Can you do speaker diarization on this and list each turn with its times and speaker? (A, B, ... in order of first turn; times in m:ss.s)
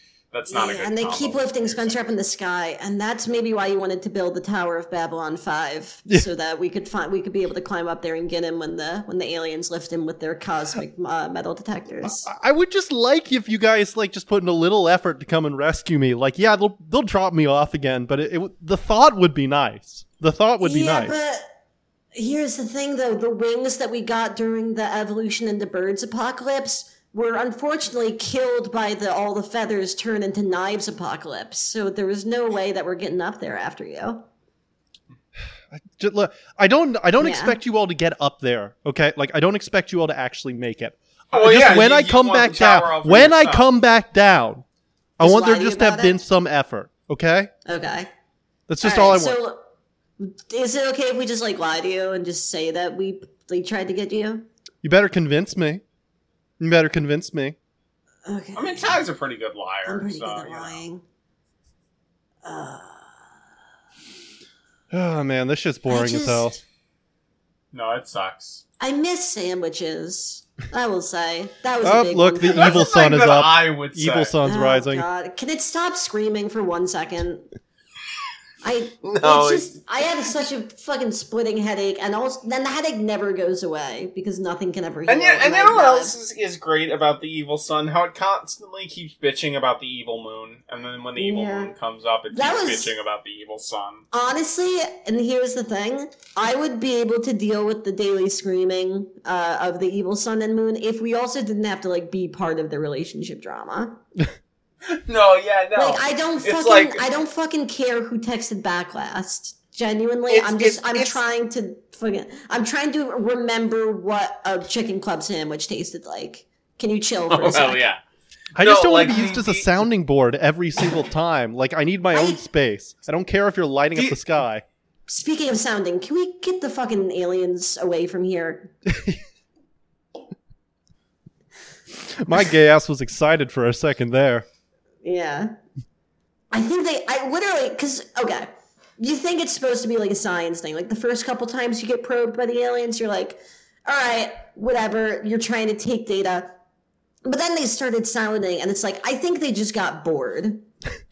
0:00.3-0:02.0 A
0:00.5-0:12.3 B
0:12.0-0:21.1 C
0:20.6-0:21.4 B
0:22.1-0:34.2 B
0:35.7-0:44.6 C
0:37.2-0:37.6 B
0:41.3-0:43.7 A
0:45.2-0:47.5 C
0:45.2-0:46.2 B
0:47.6-0:48.1 B
0:48.7-0:49.4 C
0:48.8-0:49.6 B
0:50.2-0:54.4 B
0:54.8-0:55.8 C
0:56.6-0:57.6 C
0:58.2-0:59.0 B
0:58.6-1:00.8 A
0:59.8-1:01.0 B
1:02.4-1:03.2 B
1:04.9-1:06.6 C
1:05.9-1:06.6 B
1:07.7-1:08.6 A
1:08.8-1:12.8 B
1:11.8-1:15.0 C
1:12.4-1:14.3 A
1:14.4-1:17.4 B
1:18.6-1:26.1 B
1:19.0-1:19.8 A
1:25.1-1:34.0 A
1:31.2-1:31.7 B
1:32.3-1:32.9 B
1:34.1-1:44.0 B
1:44.9-1:47.0 A
1:45.8-1:57.8 B
1:50.3-1:51.2 A
1:57.3-1:58.0 A
1:58.6-1:59.8 A
1:58.6-2:04.6 C
2:02.1-2:02.4 B
2:03.9-2:04.2 A
2:05.1-2:08.7 B
2:08.8-2:09.2 C
2:12.0-2:14.4 C
2:15.0-2:15.5 B
2:16.5-2:18.5 B
2:19.0-2:26.5 B
2:27.2-2:30.6 B